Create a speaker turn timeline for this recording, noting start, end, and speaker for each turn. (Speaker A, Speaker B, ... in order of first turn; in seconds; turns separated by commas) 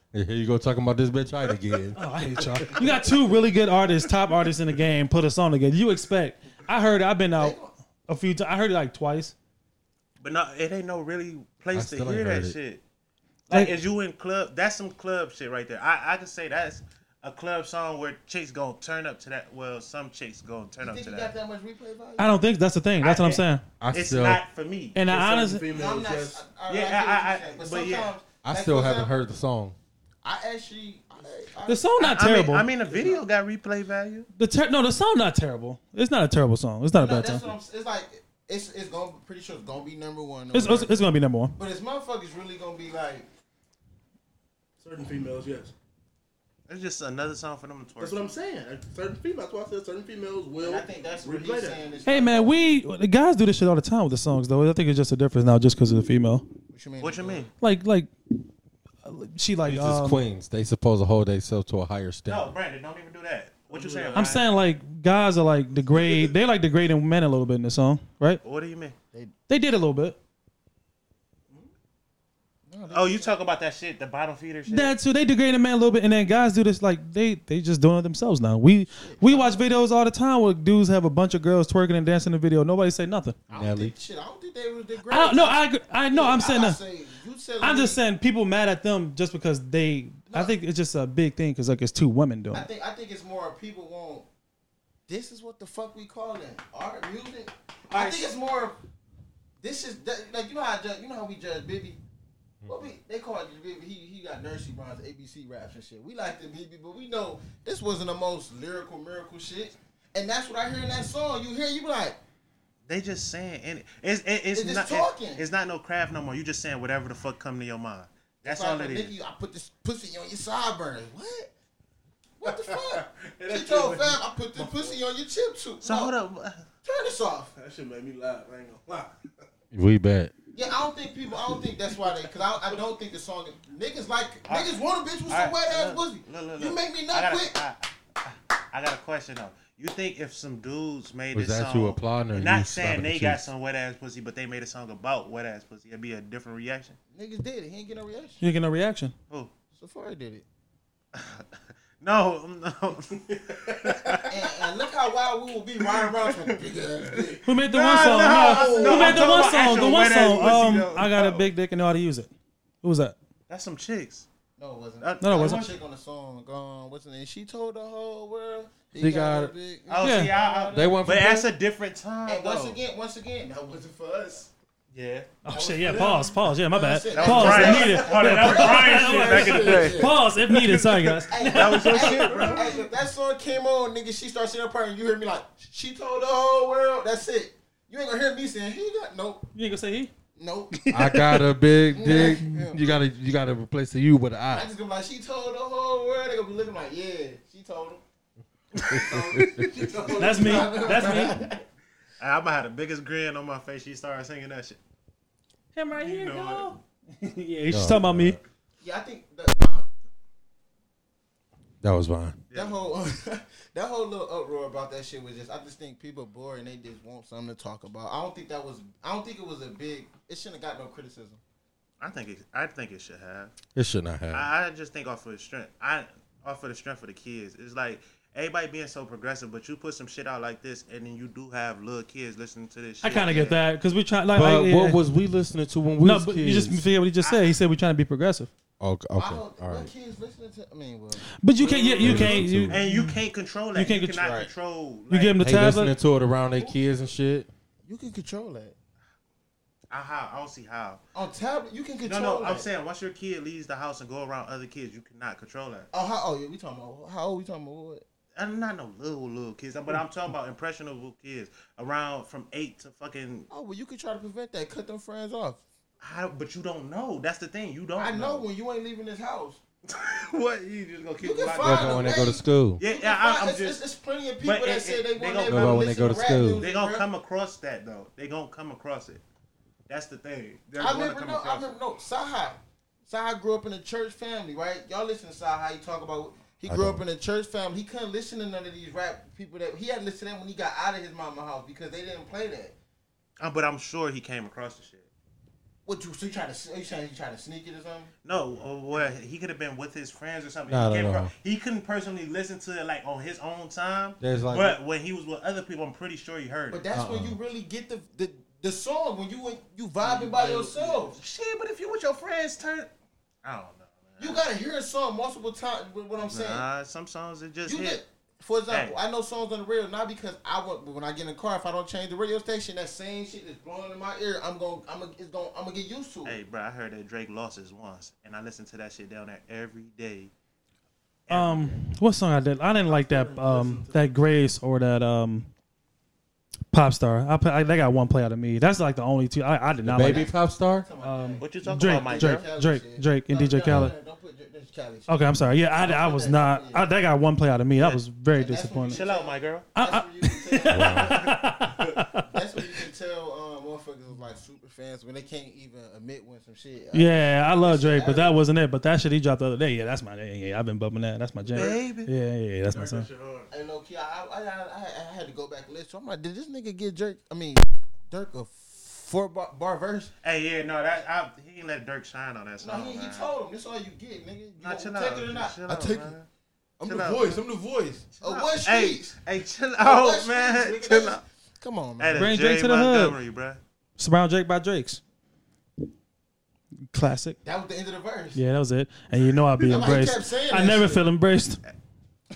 Speaker A: 0.1-2.0, Speaker B: 1.9-9.3, Speaker C: 2.5-2.8, Speaker D: 7.3-7.7, Speaker E: 10.2-12.8, Speaker A: 11.7-12.6, Speaker E: 13.5-21.3, Speaker D: 20.8-22.4, Speaker B: 22.2-23.6, Speaker E: 23.0-25.0, Speaker A: 23.8-24.4, Speaker B: 24.9-25.7, Speaker C: 25.1-26.5, Speaker D: 25.7-29.1, Speaker E: 26.7-28.1, Speaker A: 28.4-29.8, Speaker D: 30.2-31.9, Speaker B: 31.7-32.7, Speaker E: 32.0-34.3, Speaker B: 34.4-37.5, Speaker D: 36.9-43.3, Speaker B: 40.5-41.5, Speaker C: 44.8-45.7, Speaker E: 46.7-48.3, Speaker C: 48.0-51.8, Speaker D: 50.6-52.6, Speaker B: 52.0-56.5, Speaker D: 56.7-57.5, Speaker E: 57.0-57.5, Speaker B: 57.6-58.1, Speaker B: 59.0-60.2, Speaker A: 59.6-62.5, Speaker E: 62.3-64.4, Speaker C: 63.7-64.3, Speaker B: 64.1-68.4, Speaker E: 68.4-69.0, Speaker B: 69.5-70.2, Speaker D: 72.7-73.3, Speaker E: 72.9-74.9, Speaker B: 74.7-83.4, Speaker D: 78.9-79.6, Speaker D: 83.5-88.0, Speaker A: 83.5-83.9, Speaker B: 85.1-86.8, Speaker B: 87.6-92.7, Speaker D: 92.5-94.2, Speaker D: 95.1-98.8, Speaker B: 97.9-98.2, Speaker D: 99.6-102.0, Speaker A: 102.6-102.9, Speaker D: 102.7-112.2, Speaker E: 112.9-119.1, Speaker D: 114.5-115.4, Speaker D: 118.4-121.5, Speaker D: 122.4-126.1, Speaker C: 122.4-125.0, Speaker E: 125.8-126.6, Speaker D: 126.8-127.5, Speaker C: 127.5-129.2, Speaker A: 129.7-130.3, Speaker D: 130.5-137.6, Speaker C: 131.5-132.8, Speaker E: 134.5-134.8, Speaker E: 135.3-147.0, Speaker A: 141.3-143.4, Speaker D: 147.1-148.4, Speaker B: 148.4-149.1, Speaker D: 149.7-150.4, Speaker E: 151.1-151.5, Speaker E: 152.0-154.4, Speaker C: 153.1-154.3, Speaker D: 154.3-157.4, Speaker E: 155.9-156.6, Speaker C: 157.1-157.4, Speaker E: 157.3-161.5, Speaker B: 157.4-162.3, Speaker C: 157.9-160.6, Speaker D: 159.1-160.2, Speaker B: 162.8-163.2, Speaker E: 163.5-164.3, Speaker D: 164.6-171.0, Speaker E: 165.0-165.7, Speaker B: 165.2-165.6, Speaker A: 169.0-169.5, Speaker E: 169.9-172.8, Speaker B: 170.0-170.3, Speaker A: 170.7-171.5, Speaker D: 172.2-174.5, Speaker E: 174.9-175.3, Speaker B: 175.4-182.5, Speaker D: 175.5-180.3, Speaker C: 175.8-176.2, Speaker E: 177.1-180.2, Speaker D: 181.1-189.5, Speaker E: 181.4-182.8, Speaker C: 181.6-182.8, Speaker B: 189.5-190.1, Speaker D: 190.3-190.8, Speaker B: 190.7-191.5, Speaker A: 190.9-194.7, Speaker D: 191.9-192.8, Speaker B: 192.1-192.6, Speaker D: 194.5-198.0, Speaker A: 198.8-199.9, Speaker C: 198.9-201.2, Speaker D: 200.1-201.6, Speaker B: 200.2-201.3, Speaker E: 202.2-204.8, Speaker B: 205.7-208.4, Speaker E: 205.9-206.8, Speaker A: 207.7-208.4, Speaker D: 208.8-209.9, Speaker A: 211.8-212.4, Speaker E: 212.5-212.8, Speaker D: 212.5-221.4, Speaker E: 222.0-223.6, Speaker A: 223.7-224.5, Speaker E: 224.3-233.6, Speaker B: 233.0-235.0, Speaker A: 234.3-236.8, Speaker B: 236.0-238.5, Speaker E: 237.2-237.6, Speaker A: 238.8-239.9, Speaker D: 239.2-241.3, Speaker B: 241.4-243.2, Speaker E: 241.6-245.4, Speaker D: 241.9-242.2, Speaker A: 242.0-242.8, Speaker B: 243.7-244.5, Speaker B: 245.1-245.9, Speaker A: 245.4-247.5, Speaker D: 247.8-248.8, Speaker E: 249.9-251.0, Speaker D: 251.1-252.7, Speaker E: 252.0-255.9, Speaker D: 255.9-258.0, Speaker E: 258.4-263.5, Speaker D: 263.5-265.6, Speaker E: 266.0-268.4, Speaker D: 267.9-269.6, Speaker E: 269.9-272.1, Speaker D: 271.2-277.1, Speaker A: 271.6-272.8, Speaker E: 272.8-273.8, Speaker E: 274.4-279.2, Speaker A: 275.5-276.6, Speaker E: 279.9-281.8, Speaker D: 280.8-292.8, Speaker A: 286.7-287.0, Speaker E: 293.4-295.1, Speaker D: 295.8-298.1, Speaker E: 298.2-306.8, Speaker A: 300.7-301.3, Speaker A: 304.2-304.8, Speaker D: 306.7-311.2, Speaker A: 306.9-307.4, Speaker C: 310.2-310.9, Speaker E: 311.0-312.9, Speaker E: 313.4-314.4, Speaker D: 314.2-316.6, Speaker E: 316.2-318.0, Speaker D: 317.6-326.4, Speaker E: 318.7-318.9, Speaker E: 326.2-330.3, Speaker E: 331.3-331.8, Speaker B: 331.3-335.5, Speaker C: 332.8-334.1, Speaker B: 336.7-340.3, Speaker A: 339.8-340.9, Speaker D: 340.0-346.9, Speaker B: 341.0-343.9, Speaker E: 341.4-342.5, Speaker A: 343.7-343.9, Speaker B: 345.1-349.0, Speaker E: 347.8-348.0, Speaker D: 348.3-351.3, Speaker E: 348.9-349.7, Speaker B: 349.7-352.8, Speaker A: 350.7-351.1, Speaker D: 352.2-358.4, Speaker B: 356.9-363.1, Speaker E: 361.5-362.1, Speaker C: 362.6-363.5, Speaker D: 363.5-370.1, Speaker E: 370.2-373.3, Speaker D: 372.6-376.1, Speaker E: 374.6-376.3, Speaker D: 376.8-379.1, Speaker E: 376.8-377.4, Speaker E: 378.1-381.2, Speaker D: 379.8-382.4, Speaker E: 382.0-383.6, Speaker B: 382.1-383.2, Speaker B: 384.0-385.0, Speaker B: 386.9-387.4, Speaker D: 387.4-388.4, Speaker B: 388.3-391.6, Speaker D: 389.6-391.1